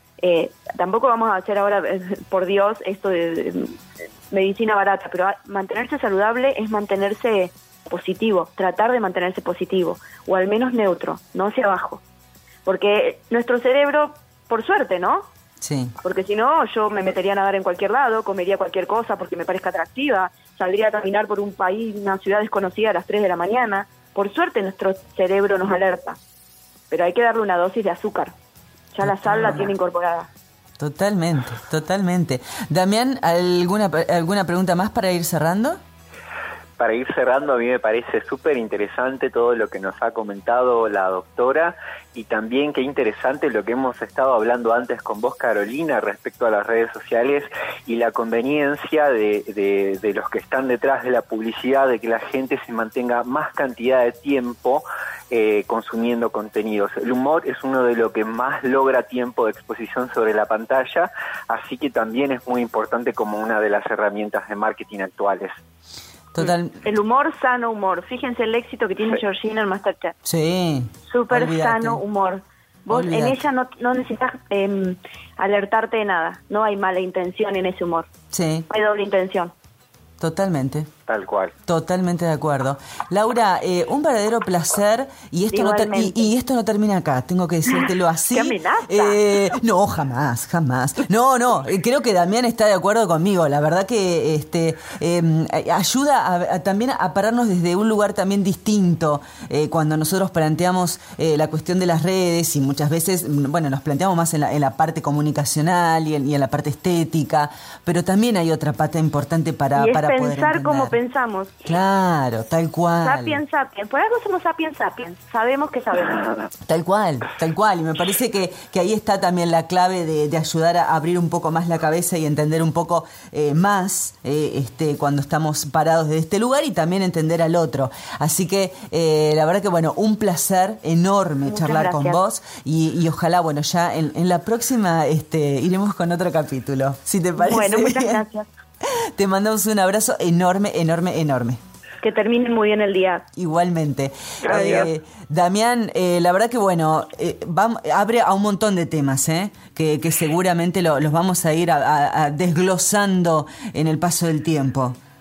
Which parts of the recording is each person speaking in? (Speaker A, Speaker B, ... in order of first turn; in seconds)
Speaker A: 0.2-12.0, 12.6-15.3, 16.0-26.2, 26.9-28.3, 28.9-30.3, 66.4-70.1, 71.0-78.1, 78.7-79.5, 85.5-86.3, 88.3-89.5, 109.8-111.6, 113.0-116.2, 131.4-132.2, 137.4-138.5, 142.0-143.2, 144.5-144.8
Speaker B: 15.6-15.9, 29.0-29.7, 30.8-35.8, 66.3-66.8, 70.2-72.0, 72.9-73.5, 78.3-78.7, 80.2-80.9, 81.7-111.0, 111.6-113.4, 116.6-138.2, 138.8-141.6, 143.3-155.0
Speaker C: 36.8-65.5, 81.1-81.5, 144.4-144.9